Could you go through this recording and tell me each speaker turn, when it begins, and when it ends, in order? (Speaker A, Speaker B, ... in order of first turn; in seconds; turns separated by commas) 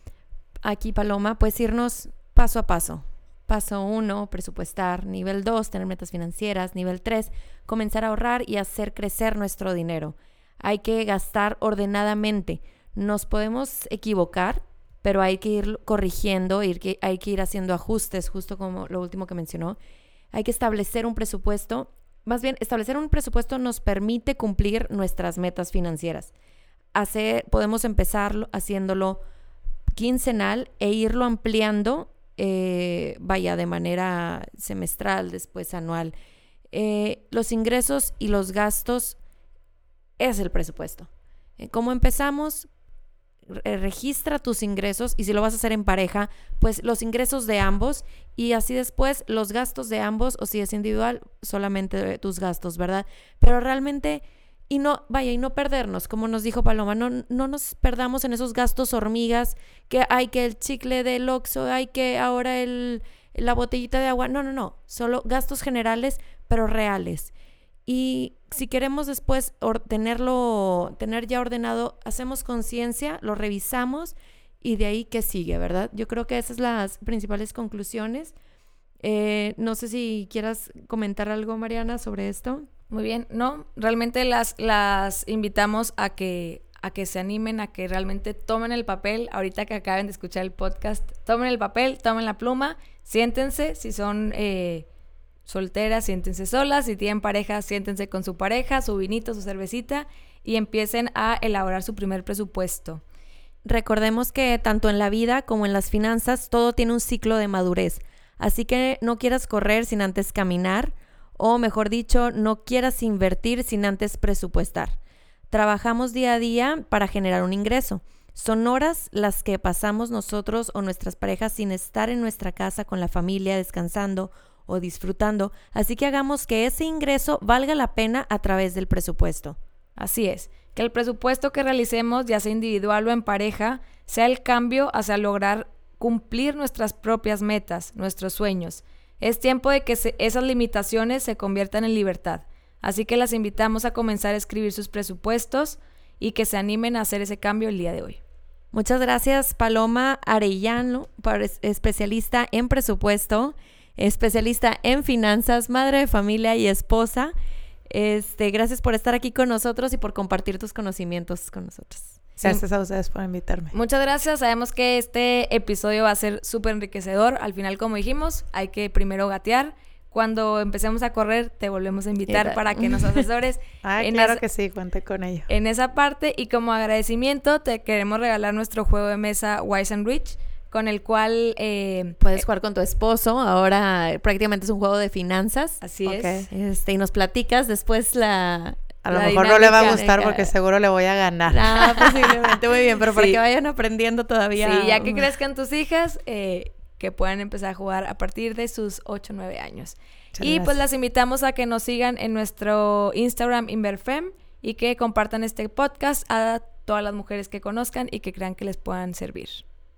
Speaker A: 0.7-19.8, Speaker A: 20.3-26.3, Speaker A: 26.9-29.2, Speaker A: 30.0-36.1, Speaker A: 36.7-39.2, Speaker A: 40.2-42.7, Speaker A: 43.5-67.3, Speaker A: 67.9-78.3, Speaker A: 79.0-82.7, Speaker B: 82.9-94.9, Speaker B: 95.5-103.0, Speaker A: 103.7-115.0, Speaker A: 115.5-129.6, Speaker B: 130.0-148.2, Speaker A: 148.7-157.3, Speaker A: 157.9-162.2, Speaker C: 162.4-163.8, Speaker B: 163.7-174.4, Speaker A: 172.3-173.2, Speaker C: 173.8-175.5, Speaker B: 175.5-182.4, Speaker A: 182.2-185.8, Speaker B: 185.8-186.5, Speaker C: 186.1-186.5, Speaker A: 186.5-188.9, Speaker C: 189.0-192.3, Speaker B: 189.1-190.3, Speaker A: 189.8-190.5, Speaker A: 191.5-195.3, Speaker B: 193.1-193.4, Speaker B: 194.6-209.6, Speaker C: 200.4-200.8